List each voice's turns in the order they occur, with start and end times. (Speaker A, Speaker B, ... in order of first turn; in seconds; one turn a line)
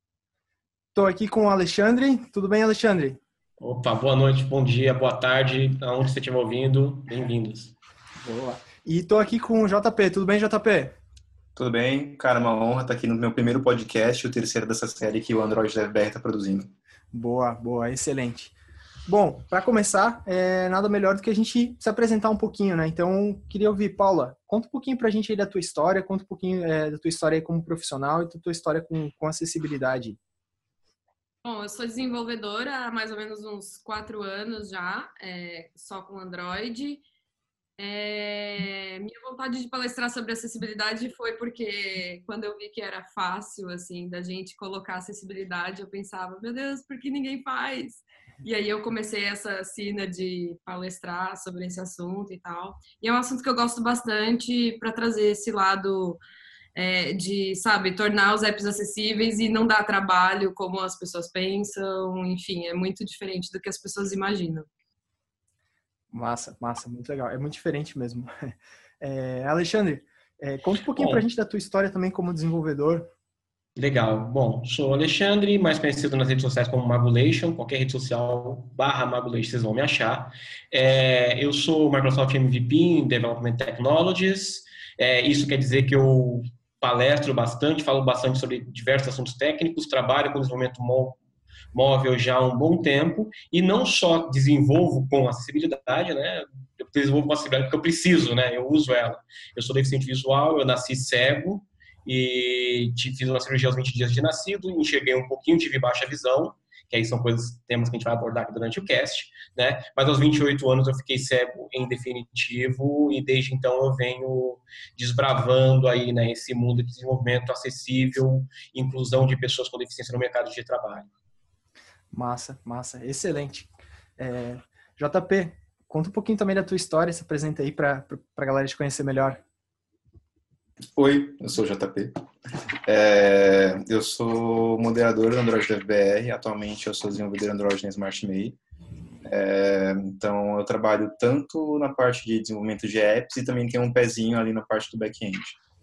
Speaker A: 0.9-3.2
Speaker B: 3.6-7.7
Speaker A: 8.2-10.9
Speaker C: 11.6-16.7
Speaker A: 17.1-18.5
Speaker A: 19.1-30.2
Speaker D: 31.4-37.0
Speaker D: 37.8-56.2
Speaker D: 56.8-64.7
Speaker A: 66.1-73.1
Speaker B: 70.9-71.2
Speaker B: 73.8-91.2
Speaker B: 91.7-121.1
Speaker A: 122.1-129.4
Speaker C: 130.9-132.1
Speaker C: 132.8-138.6
Speaker C: 139.2-145.6